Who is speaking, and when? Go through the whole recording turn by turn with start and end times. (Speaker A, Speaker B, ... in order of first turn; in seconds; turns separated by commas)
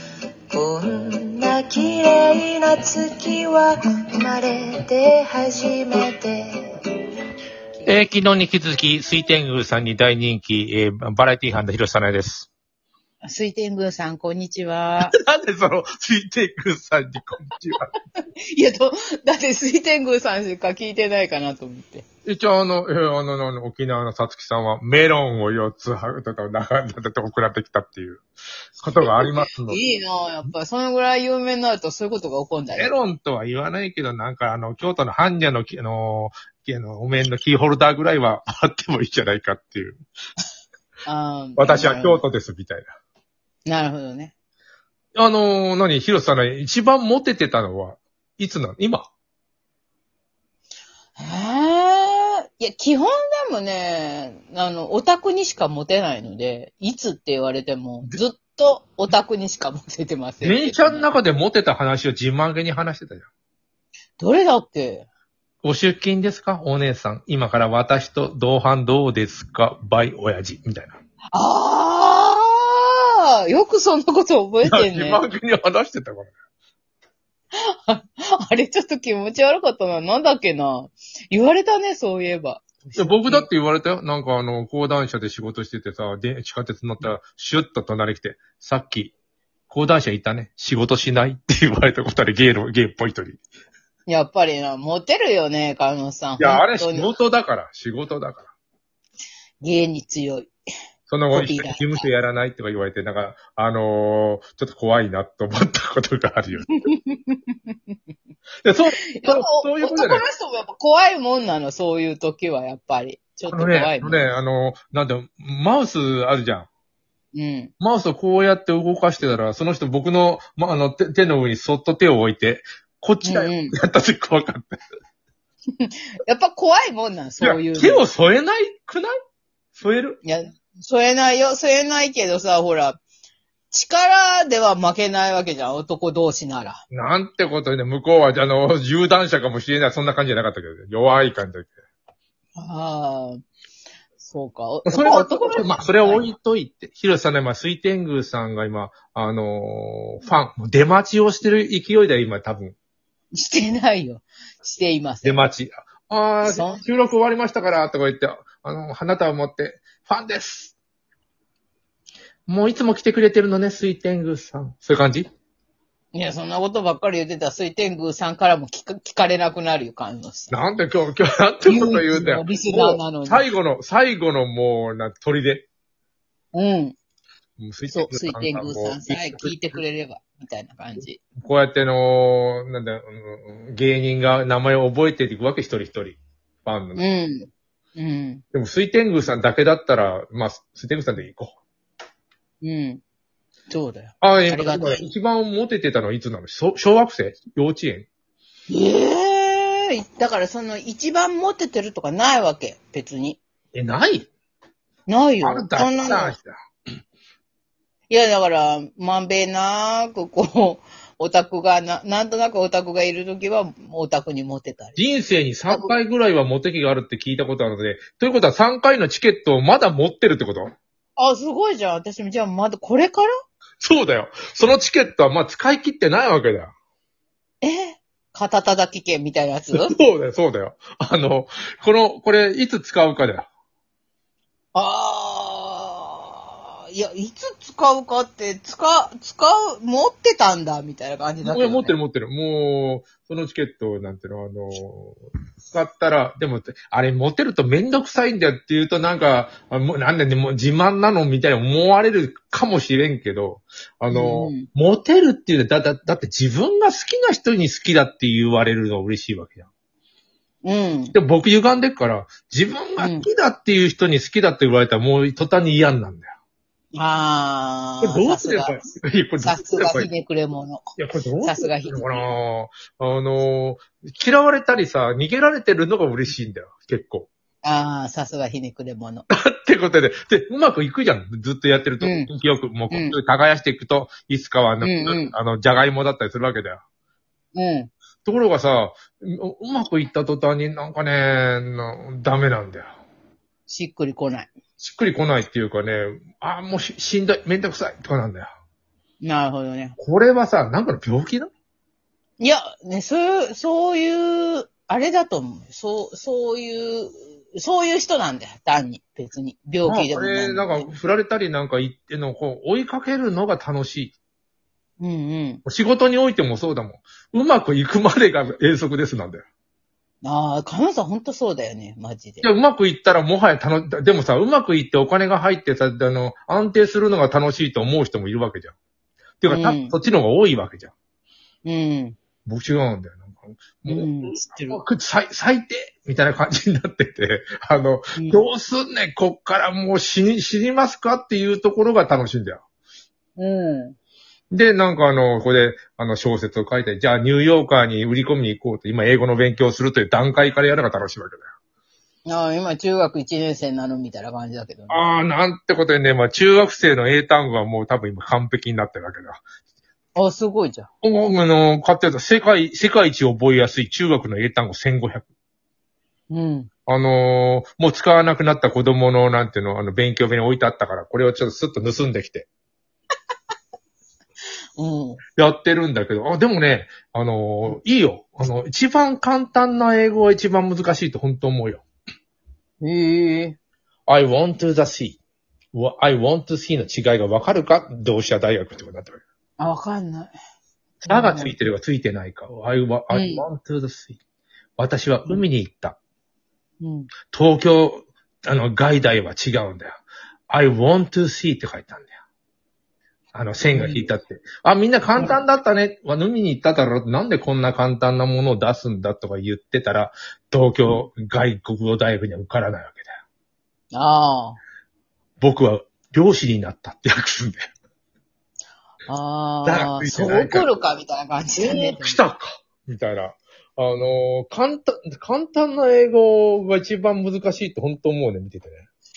Speaker A: 0.5-6.5, Speaker B: 7.8-12.5, Speaker C: 13.2-15.1, Speaker B: 15.0-17.9, Speaker C: 18.5-22.0, Speaker B: 22.2-28.2, Speaker B: 28.8-29.8, Speaker C: 28.9-32.9, Speaker B: 32.7-40.0, Speaker C: 41.0-42.2, Speaker B: 41.6-42.9, Speaker C: 43.6-44.3, Speaker B: 45.1-49.1, Speaker C: 51.2-61.1, Speaker B: 60.4-63.3, Speaker C: 64.2-65.0, Speaker B: 65.6-71.0, Speaker C: 71.3-75.2, Speaker B: 74.6-76.3, Speaker C: 77.5-83.5, Speaker B: 83.0-89.1, Speaker B: 89.7-93.4, Speaker C: 94.1-97.1, Speaker B: 96.4-98.5, Speaker C: 99.6-100.5, Speaker B: 101.1-106.7, Speaker C: 101.3-102.1, Speaker C: 106.7-107.9, Speaker B: 108.6-110.2, Speaker C: 109.1-114.3, Speaker B: 113.5-116.7, Speaker C: 117.3-117.7, Speaker B: 117.8-124.8, Speaker C: 123.2-123.7, Speaker C: 125.8-128.0, Speaker B: 127.4-129.1, Speaker B: 129.7-130.2, Speaker C: 130.2-133.0, Speaker C: 133.7-136.8, Speaker B: 136.9-141.7, Speaker C: 142.6-143.4, Speaker C: 144.2-146.3, Speaker B: 144.9-152.7, Speaker C: 153.3-155.4, Speaker B: 155.2-160.7, Speaker C: 156.4-156.8, Speaker B: 162.5-165.3, Speaker C: 166.1-170.6, Speaker B: 170.5-175.7, Speaker C: 171.7-173.5, Speaker C: 176.5-176.9, Speaker B: 177.6-179.8, Speaker C: 177.9-181.2, Speaker B: 181.4-187.0, Speaker C: 186.9-188.4, Speaker B: 188.5-191.5, Speaker C: 192.6-193.0, Speaker C: 193.7-195.1, Speaker B: 194.2-198.1, Speaker C: 198.7-203.4, Speaker B: 203.7-204.3, Speaker C: 205.1-206.3, Speaker B: 205.4-206.5, Speaker C: 208.1-215.0, Speaker B: 215.0-220.7, Speaker C: 215.7-215.9, Speaker C: 221.2-223.3, Speaker B: 223.8-226.7, Speaker C: 227.6-229.9, Speaker B: 229.7-233.5, Speaker C: 234.7-241.9, Speaker B: 241.4-245.2, Speaker B: 245.7-259.7, Speaker C: 254.1-254.7, Speaker C: 260.6-261.1, Speaker B: 261.1-266.3, Speaker C: 263.0-263.3, Speaker C: 266.9-268.8, Speaker B: 268.0-270.1, Speaker C: 269.4-270.8, Speaker B: 271.0-277.3, Speaker C: 271.4-272.3, Speaker C: 277.6-279.2, Speaker B: 279.3-286.8, Speaker C: 282.0-282.3, Speaker C: 282.9-283.2, Speaker C: 284.8-285.3, Speaker C: 287.5-287.9, Speaker B: 288.2-292.9, Speaker C: 293.7-294.5, Speaker B: 294.8-298.5, Speaker C: 299.2-299.9, Speaker B: 300.0-301.5, Speaker C: 302.4-310.9, Speaker B: 309.9-314.1, Speaker C: 315.0-315.6, Speaker B: 315.6-319.4, Speaker C: 320.2-322.4, Speaker B: 322.4-328.7, Speaker B: 329.4-330.9, Speaker C: 329.5-329.9, Speaker C: 331.6-332.2, Speaker B: 332.4-342.6, Speaker C: 333.9-334.8, Speaker C: 338.1-338.4, Speaker C: 343.4-343.9, Speaker B: 344.5-351.5, Speaker C: 352.2-355.0, Speaker B: 354.9-359.4, Speaker C: 360.1-360.9, Speaker B: 361.0-365.3, Speaker C: 366.3-366.7, Speaker B: 366.9-372.5, Speaker C: 374.8-375.2, Speaker B: 375.4-381.8, Speaker C: 382.8-383.6, Speaker B: 384.1-385.2, Speaker B: 385.7-389.2, Speaker C: 389.6-390.3, Speaker B: 391.0-394.2, Speaker C: 391.0-391.6, Speaker C: 393.1-393.4, Speaker B: 394.8-396.0, Speaker C: 396.8-397.1, Speaker B: 397.3-402.1, Speaker B: 403.3-413.1, Speaker C: 403.7-404.1, Speaker C: 413.9-414.6, Speaker B: 415.4-417.6, Speaker C: 419.1-422.2, Speaker B: 419.6-420.7, Speaker B: 421.6-428.8